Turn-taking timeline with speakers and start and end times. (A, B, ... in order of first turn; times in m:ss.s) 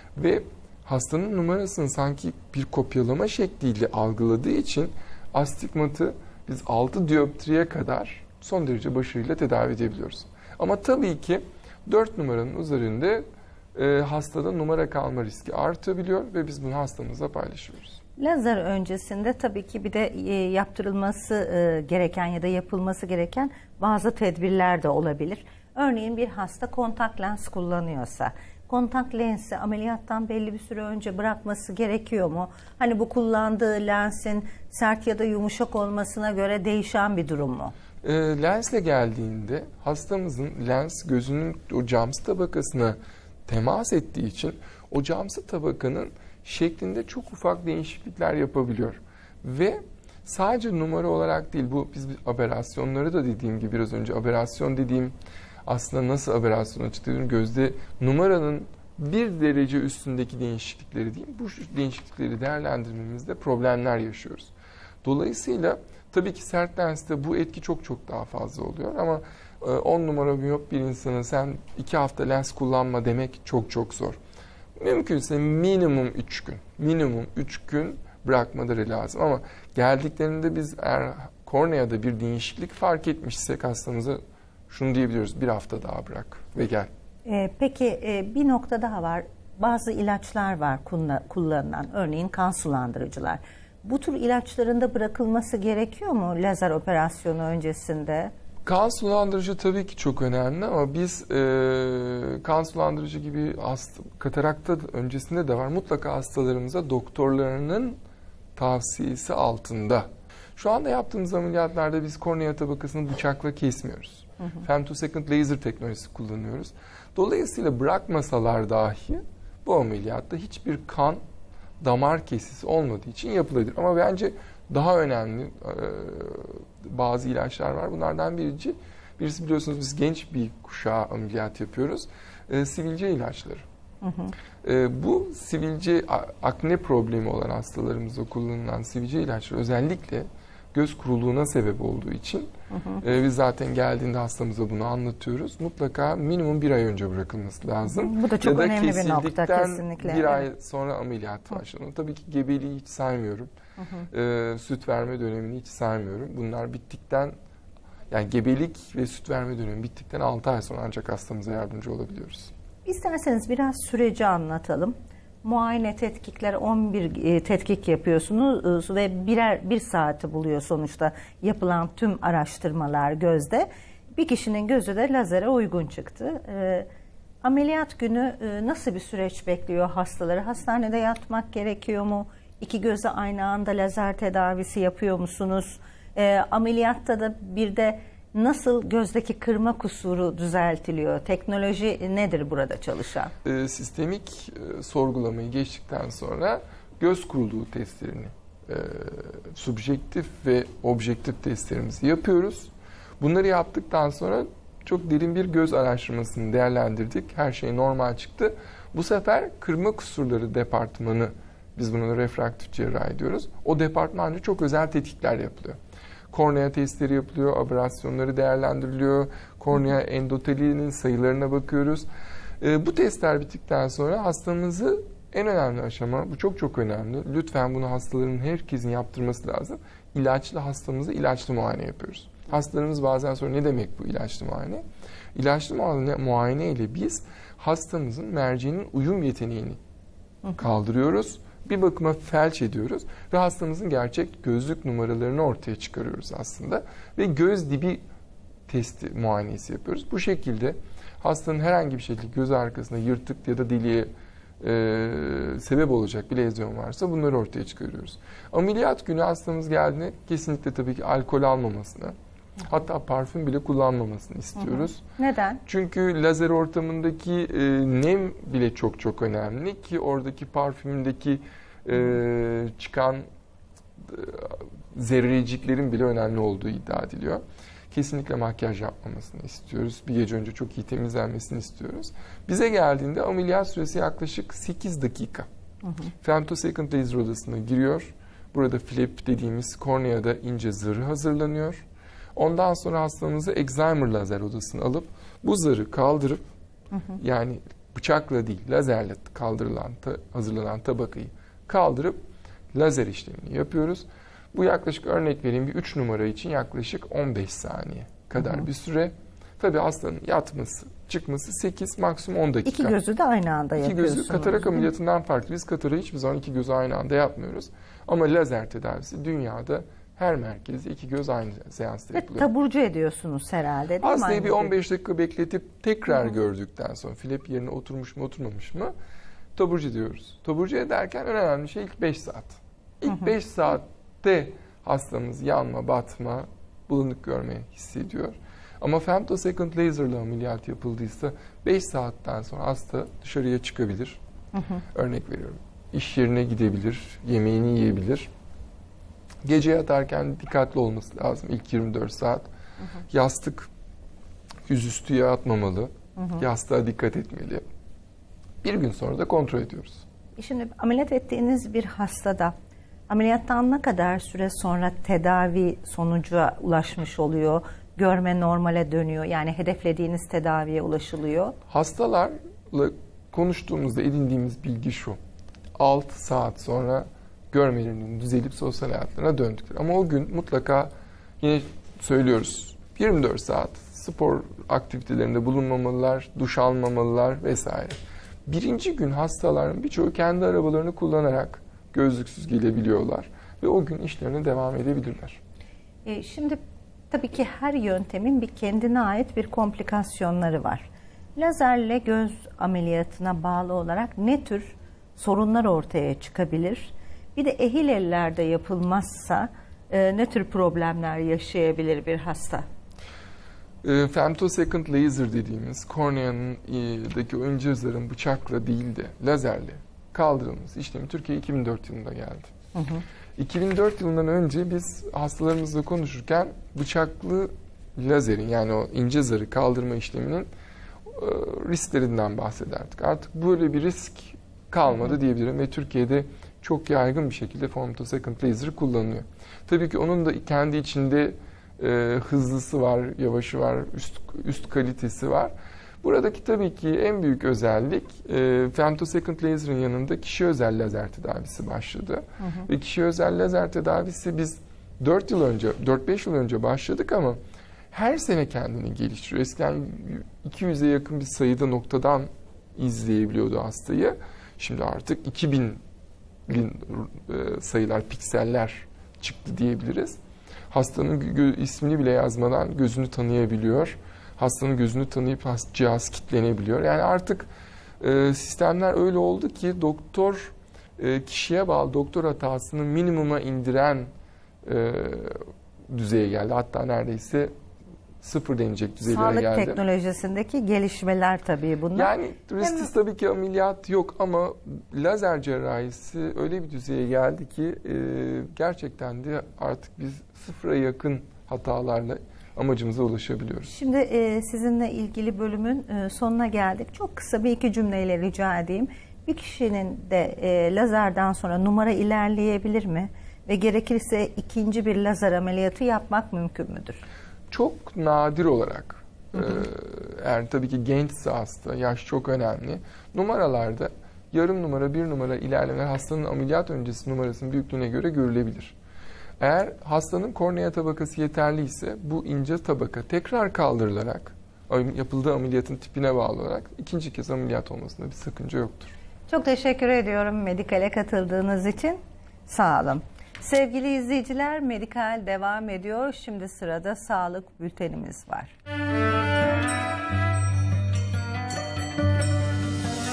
0:00.2-0:18.0 A
0:18.2-0:37.7 B
0:38.0-1:14.2 A
1:14.8-1:26.9 A
1:27.2-1:38.3 B
1:38.6-1:48.0 A
1:48.5-2:01.2 A
2:01.8-2:13.6 A
2:14.0-2:14.3 B
2:14.6-2:33.5 A
2:22.7-2:23.0 B
2:27.8-2:30.5 B
2:33.8-2:34.0 B
2:34.1-2:37.3 A
2:38.1-2:42.5 A
2:42.8-2:56.9 B
2:57.4-3:13.3 B
3:13.4-3:35.8 A
3:36.3-3:42.0 A
3:42.6-3:54.8 A
3:55.3-3:59.8 A
4:00.5-4:08.0 A
4:08.7-4:25.0 A
4:24.6-4:25.6 B
4:25.6-4:33.2 A
4:34.0-4:45.5 A
4:45.8-4:46.1 B
4:46.2-4:56.4 A
4:57.1-5:02.2 A
5:02.7-5:13.0 A
5:12.6-5:14.9 B
5:13.8-5:22.5 A
5:22.2-5:24.7 B
5:24.0-5:28.9 A
5:29.5-5:44.2 A
5:44.5-5:44.8 B
5:44.9-5:48.3 A
5:49.4-5:52.5 A
5:53.1-5:53.7 A
5:54.7-5:57.6 A
5:56.2-5:56.4 B
5:58.6-6:00.0 A
6:00.4-6:02.5 B
6:03.1-6:11.6 B
6:11.7-6:15.2 A
6:15.8-6:35.4 A
6:36.0-6:36.6 B
6:37.1-6:52.6 B
6:53.8-7:02.5 A
7:02.7-7:03.0 B
7:03.4-7:10.5 A
7:11.1-7:37.4 A
7:32.4-7:32.7 B
7:37.9-7:45.8 A
7:46.5-7:50.2 A
7:50.7-8:04.1 A
8:04.6-8:07.5 A
8:08.2-8:09.8 A
8:09.0-8:12.9 B
8:11.9-8:23.7 A
8:23.7-8:37.0 B
8:37.5-8:48.8 A
8:49.4-8:58.9 A
8:59.3-9:08.5 B